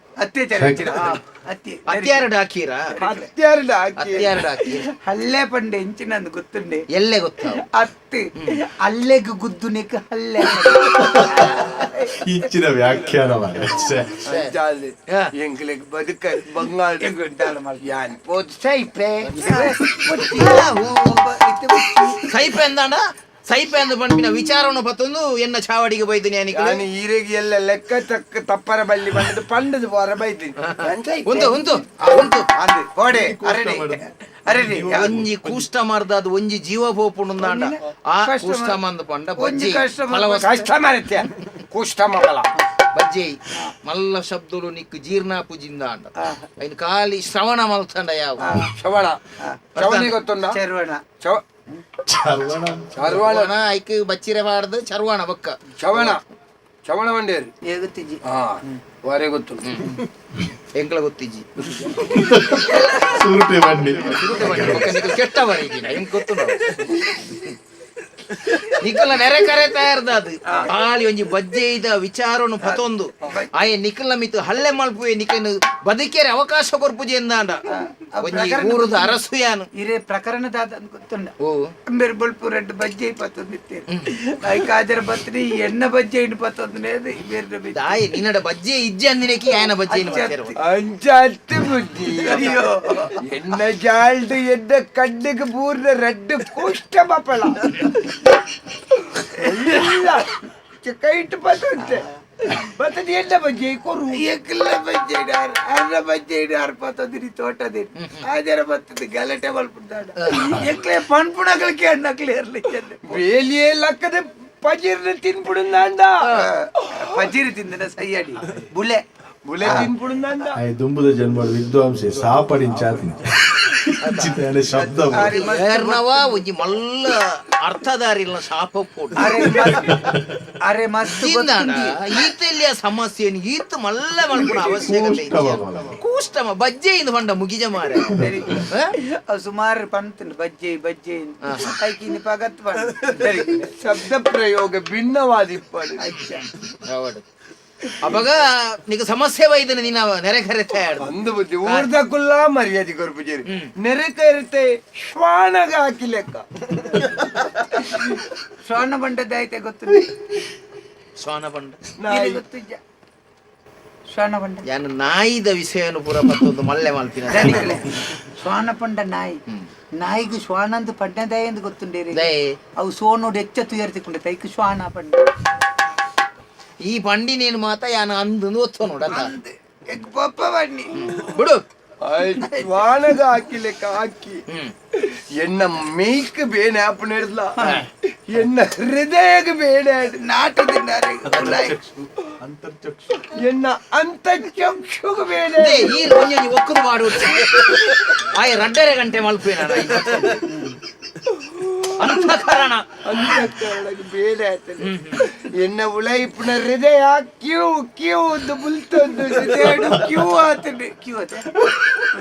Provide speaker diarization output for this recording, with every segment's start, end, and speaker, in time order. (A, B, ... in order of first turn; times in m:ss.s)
0:00.2-0:02.3 A
0:00.6-0:01.1 B
0:01.9-0:02.8 C
0:03.0-0:03.3 A
0:03.0-0:04.4 D
0:04.0-0:04.9 C
0:05.0-0:06.8 A
0:06.9-0:07.6 C
0:07.6-0:12.2 A
0:12.2-0:14.2 B
0:14.2-0:17.1 D
0:17.0-0:17.8 A
0:17.8-0:20.6 D
0:19.4-0:22.3 A
0:22.2-0:26.8 C
0:26.5-0:31.6 D
0:30.6-0:32.5 C
0:32.5-0:35.1 A
0:33.1-0:35.6 B
0:34.9-0:40.7 C
0:37.4-0:38.8 A
0:39.4-0:40.8 A
0:40.4-0:42.5 D
0:42.9-0:48.4 C
0:46.2-0:46.4 A
0:48.4-0:48.7 A
0:48.8-0:49.2 D
0:49.8-0:50.1 C
0:49.8-0:50.6 D
0:50.5-0:51.0 A
0:52.1-0:53.1 B
0:53.0-0:53.5 D
0:53.0-0:56.2 C
0:55.8-0:56.2 D
0:56.8-0:57.5 D
0:57.6-0:58.8 A
0:58.3-0:59.9 D
0:59.6-1:00.0 C
1:00.7-1:01.4 C
1:01.6-1:02.1 D
1:02.1-1:05.0 B
1:02.8-1:03.1 C
1:04.1-1:07.5 C
1:08.4-1:17.6 C
1:12.6-1:13.5 A
1:17.7-1:19.2 A
1:18.2-1:19.7 C
1:19.8-1:21.3 A
1:21.4-1:21.7 C
1:21.9-1:28.0 A
1:27.7-1:30.6 C
1:29.9-1:30.5 A
1:30.6-1:32.6 D
1:32.1-1:33.2 A
1:33.2-1:38.0 D
1:39.2-1:39.5 A
1:39.4-1:44.3 D
1:44.1-1:53.0 A
1:50.2-1:50.5 C
1:53.0-1:56.2 D
1:56.3-1:59.0 A
1:57.0-1:57.3 D
1:59.4-2:00.6 D
1:59.6-1:59.9 A
2:00.5-2:03.2 B
2:03.8-2:05.4 B
2:04.0-2:04.4 C
2:04.7-2:06.0 A
2:05.1-2:09.6 C
2:09.2-2:10.0 A
2:09.6-2:10.2 B
2:10.6-2:12.0 A
2:11.2-2:18.2 C
2:14.7-2:16.0 B
2:18.0-2:23.7 A
2:21.4-2:21.7 C
2:23.6-2:26.1 D
2:26.0-2:26.5 A
2:26.9-2:27.2 C
2:28.0-2:31.1 C
2:31.0-2:37.1 D
2:31.6-2:31.9 C
2:38.6-2:40.1 A
2:41.2-2:41.8 C
2:42.0-2:42.4 D
2:42.1-2:42.8 A
2:44.1-2:44.6 A
2:44.6-2:47.8 C
2:47.3-2:49.4 A
2:50.0-2:52.2 A
2:52.1-2:52.6 C
2:52.8-2:55.3 A
2:56.9-2:59.3 C
2:59.1-3:01.1 A
3:00.9-3:01.6 C
3:02.0-3:04.4 D
3:02.4-3:02.8 A
3:05.0-3:07.5 D
3:07.6-3:07.8 C
3:08.3-3:10.2 D
3:10.0-3:11.8 A
3:11.3-3:11.7 C
3:11.4-3:13.2 B
3:13.2-3:16.0 D
3:15.6-3:20.4 C
3:20.3-3:20.8 A
3:21.4-3:21.8 D
3:22.0-3:22.8 C
3:23.0-3:30.1 D
3:24.8-3:25.2 C
3:29.2-3:32.0 A